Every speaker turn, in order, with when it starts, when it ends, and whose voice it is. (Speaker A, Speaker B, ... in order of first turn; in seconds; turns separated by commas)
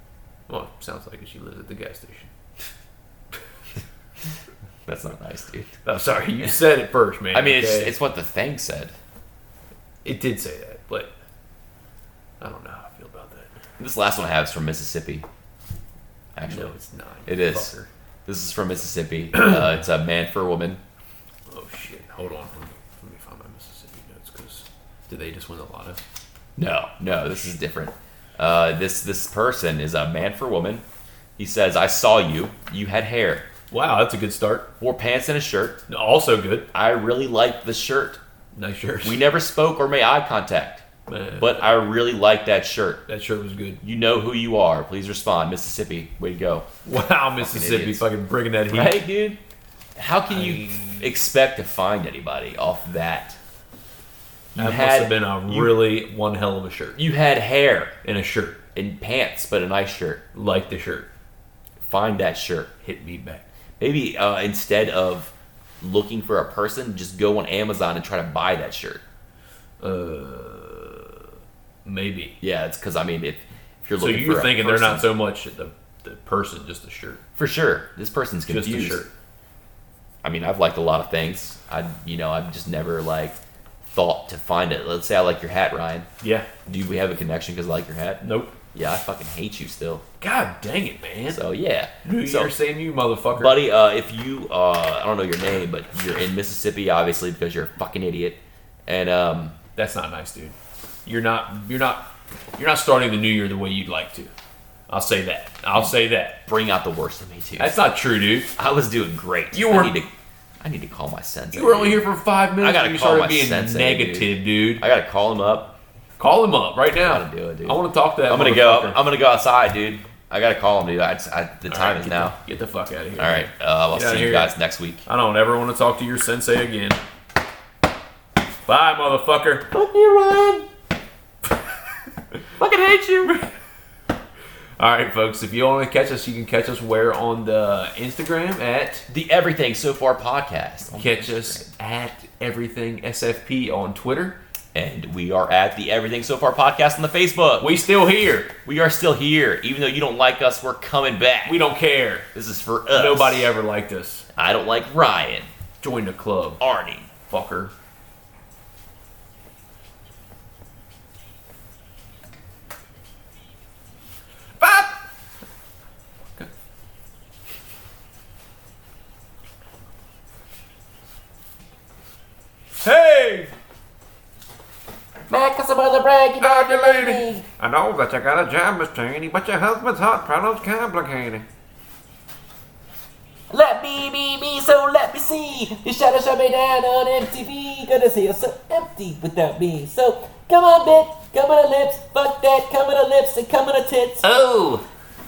Speaker A: 0.5-2.3, Speaker B: 4.9-5.8, Speaker A: 5.8-7.9, Speaker B: 7.3-8.9, Speaker A: 10.0-11.1, Speaker A: 12.4-13.6, Speaker B: 13.8-15.3, Speaker B: 16.4-16.7, Speaker A: 16.4-17.9, Speaker B: 17.3-17.7, Speaker B: 18.3-20.8, Speaker A: 19.3-19.6, Speaker A: 21.5-26.0, Speaker B: 26.6-30.8, Speaker B: 31.4-33.5, Speaker A: 33.7-34.7, Speaker B: 34.8-35.8, Speaker A: 35.9-36.7, Speaker B: 36.7-38.2, Speaker A: 38.5-39.2, Speaker B: 39.0-40.9, Speaker A: 41.1-41.7, Speaker B: 41.4-43.0, Speaker A: 43.1-43.8, Speaker B: 43.8-46.7, Speaker A: 46.9-49.0, Speaker B: 47.4-48.0, Speaker B: 48.7-49.4, Speaker B: 50.0-53.4, Speaker A: 50.3-51.1, Speaker B: 54.6-55.9, Speaker A: 54.6-57.0, Speaker B: 57.0-58.0, Speaker A: 58.0-58.6, Speaker B: 58.8-60.2, Speaker A: 60.3-61.1, Speaker B: 61.8-62.7, Speaker A: 62.8-63.5, Speaker B: 63.8-69.0, Speaker A: 69.8-71.3, Speaker A: 71.8-72.4, Speaker B: 72.4-75.1, Speaker A: 74.0-77.2, Speaker B: 77.4-79.0, Speaker A: 78.5-79.1, Speaker B: 80.2-86.1, Speaker A: 86.2-86.5, Speaker B: 86.7-90.0, Speaker A: 88.2-88.6, Speaker A: 90.2-91.5, Speaker B: 91.3-92.5, Speaker A: 92.0-93.6, Speaker B: 93.4-99.6, Speaker A: 99.8-104.3, Speaker A: 104.9-106.4, Speaker B: 106.5-107.8, Speaker A: 107.6-108.5, Speaker B: 108.6-115.8, Speaker A: 109.5-110.0, Speaker A: 111.5-114.8, Speaker A: 116.2-119.0, Speaker B: 117.0-122.4, Speaker A: 121.7-124.5, Speaker B: 123.2-125.0, Speaker A: 125.1-127.0, Speaker A: 128.7-129.9, Speaker C: 129.8-130.7, Speaker A: 134.8-139.1, Speaker B: 139.1-141.7, Speaker A: 140.9-144.4, Speaker B: 144.7-147.7, Speaker A: 147.6-148.5, Speaker B: 148.7-151.6, Speaker A: 151.4-152.3, Speaker B: 152.3-153.5, Speaker A: 152.9-154.3, Speaker B: 154.3-155.5, Speaker A: 155.8-156.6, Speaker B: 156.6-157.1, Speaker A: 157.3-157.7, Speaker A: 164.6-165.0, Speaker A: 172.8-173.5, Speaker C: 175.3-177.4, Speaker A: 176.4-181.4, Speaker C: 183.5-194.8